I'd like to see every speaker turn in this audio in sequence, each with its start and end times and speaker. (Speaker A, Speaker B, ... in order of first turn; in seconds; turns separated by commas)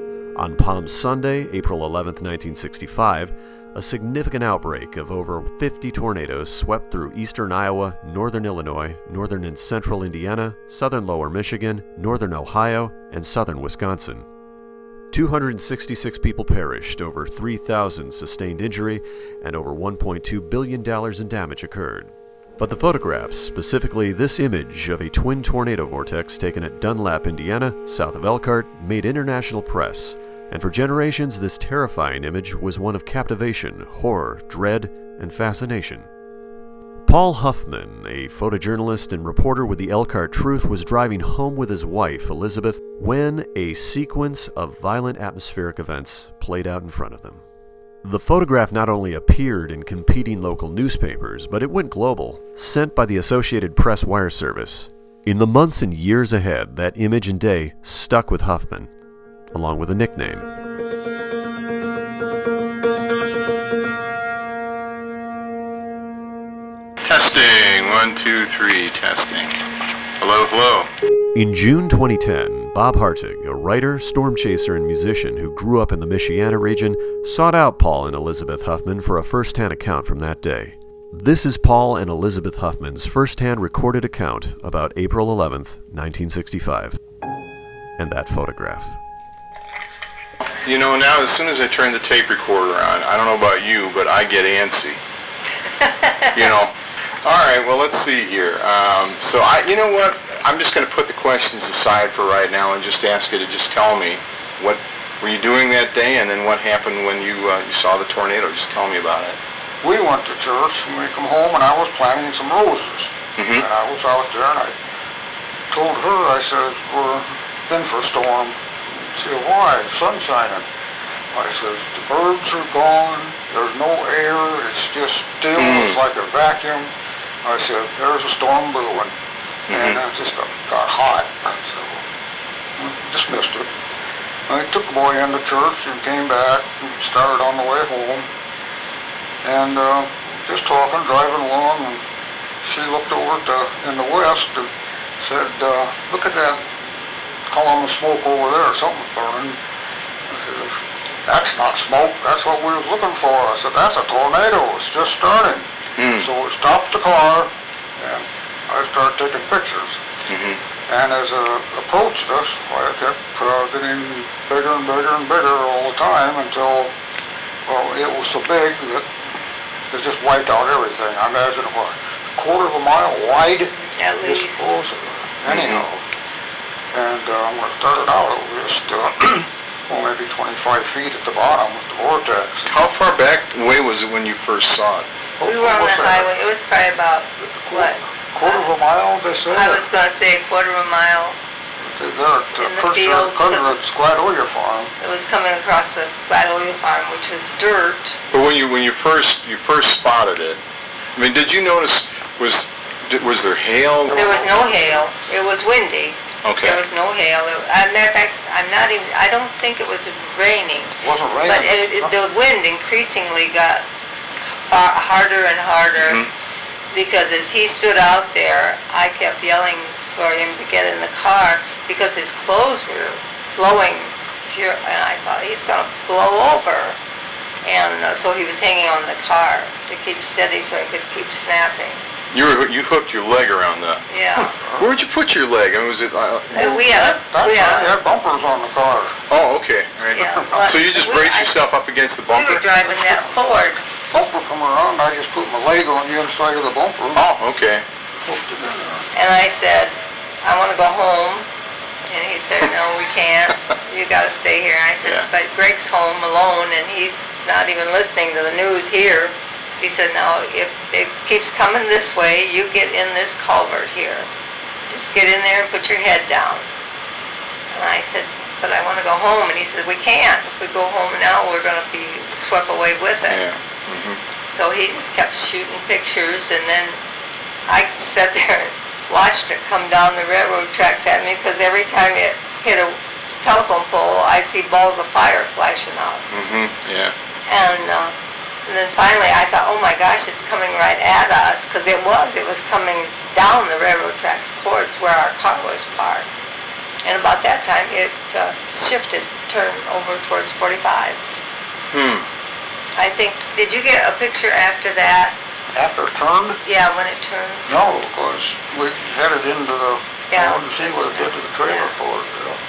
Speaker A: 0.4-14.3, Speaker A: 15.1-36.1, Speaker A: 37.0-47.4, Speaker A: 48.0-58.9, Speaker A: 59.5-60.5, Speaker B: 67.0-69.5, Speaker B: 70.2-70.9, Speaker A: 71.3-87.0, Speaker A: 88.0-89.0, Speaker B: 90.6-95.0, Speaker C: 95.8-96.3, Speaker B: 96.3-109.4, Speaker D: 109.8-114.8, Speaker B: 113.4-113.7, Speaker D: 115.7-120.7, Speaker D: 121.3-126.9, Speaker B: 125.5-126.0, Speaker D: 127.4-129.2, Speaker B: 129.7-130.0, Speaker D: 129.7-132.1, Speaker D: 132.8-133.7, Speaker D: 134.5-138.3, Speaker D: 139.4-142.0, Speaker D: 142.6-146.9, Speaker D: 147.5-149.6, Speaker D: 150.3-160.0, Speaker B: 156.0-156.3, Speaker B: 160.3-160.6, Speaker D: 160.9-166.9, Speaker D: 167.7-169.1, Speaker D: 169.9-176.1, Speaker C: 173.8-174.7, Speaker B: 175.5-175.9, Speaker D: 176.9-182.7, Speaker B: 182.7-185.1, Speaker D: 185.4-186.3, Speaker C: 185.4-188.6, Speaker D: 187.4-189.9, Speaker C: 189.5-191.4, Speaker D: 191.8-194.9, Speaker C: 192.6-193.8, Speaker C: 195.0-198.2, Speaker B: 198.3-200.6, Speaker B: 201.2-204.3, Speaker D: 204.1-205.1, Speaker C: 204.1-213.9, Speaker B: 206.4-206.8, Speaker D: 211.0-212.2, Speaker C: 214.7-216.2, Speaker B: 216.0-216.3, Speaker C: 216.9-227.0, Speaker C: 227.6-232.0, Speaker B: 232.3-237.1, Speaker C: 234.1-234.6, Speaker C: 236.5-238.0, Speaker D: 236.6-239.2, Speaker B: 239.3-243.0, Speaker C: 240.1-241.6, Speaker D: 240.3-240.6, Speaker C: 242.3-243.8, Speaker D: 244.1-247.2, Speaker B: 247.2-247.8, Speaker D: 248.2-249.1, Speaker C: 249.1-251.5, Speaker C: 252.1-264.3, Speaker C: 264.9-266.7, Speaker C: 267.7-273.4, Speaker B: 273.3-274.2, Speaker C: 274.5-277.0, Speaker C: 277.7-286.2, Speaker B: 286.3-287.1, Speaker C: 287.5-288.1, Speaker C: 288.7-296.3, Speaker C: 297.0-301.2, Speaker B: 301.9-302.3, Speaker C: 303.0-305.4, Speaker D: 305.7-306.6, Speaker C: 306.6-307.7, Speaker D: 307.6-312.6, Speaker C: 310.3-311.9